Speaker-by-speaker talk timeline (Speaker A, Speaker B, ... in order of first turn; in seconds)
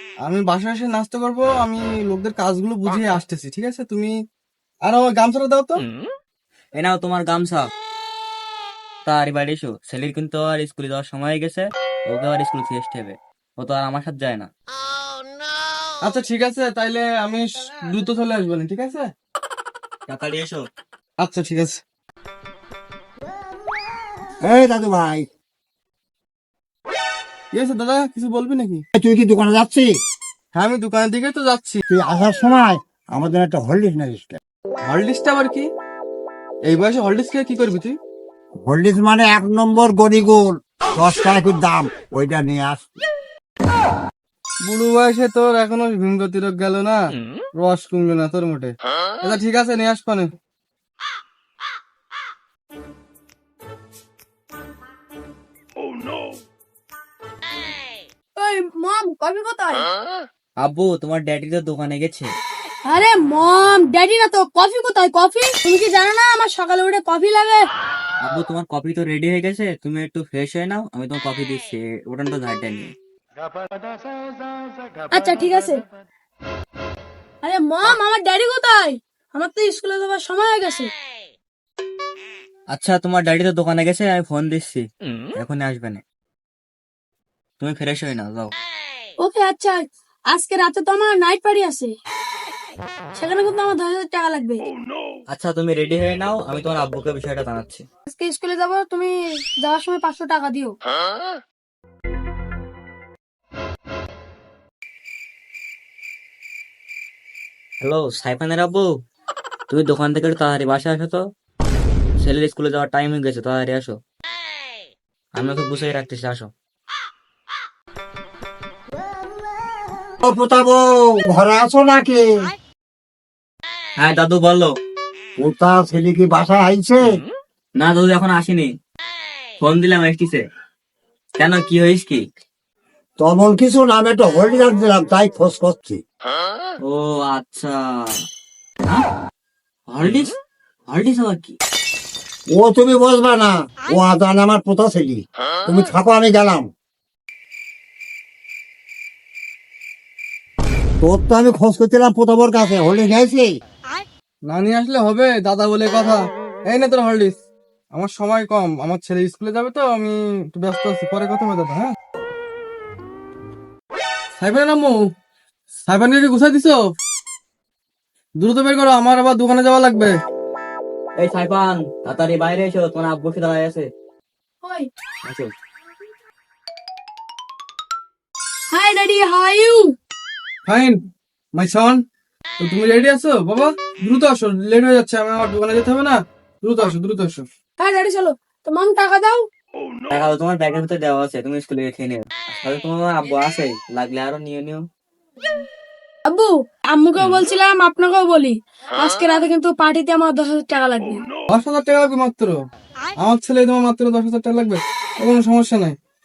Speaker A: 0.2-4.1, 4.8-5.8, 16.0-19.1, 21.2-21.8, 27.5-28.8, 30.5-31.8, 34.9-35.7, 36.7-38.0, 44.6-47.0, 47.6-50.3, 154.5-157.4, 157.9-161.9, 164.4-165.0, 165.8-166.9, 168.4-170.2, 180.7-181.0, 181.6-182.0, 182.6-187.5, 201.5-202.6, 203.2-206.0
Speaker B: 6.8-7.7, 9.1-14.5, 20.1-20.6, 60.6-62.3, 68.2-72.9, 82.7-86.0, 87.6-88.5, 95.3-97.8, 107.8-108.9, 109.7-111.2, 112.2-114.0, 115.4-116.5, 124.0-124.7, 127.8-128.7, 129.6-130.4, 131.4-132.2, 136.8-138.1, 139.9-140.3, 140.9-141.6, 171.2-173.9, 175.2-175.5, 190.1-194.8
Speaker C: 24.4-25.3, 28.9-29.9, 31.9-34.4, 38.6-42.9, 120.2-122.2, 125.4-127.2, 133.2-136.0, 142.5-146.7, 151.0-153.5
Speaker D: 58.4-59.9, 62.9-67.6, 75.1-75.8, 77.4-80.9, 89.2-91.9, 93.1-94.7, 98.1-100.8, 174.6-174.9, 178.7-180.0, 187.8-189.4, 196.3-201.2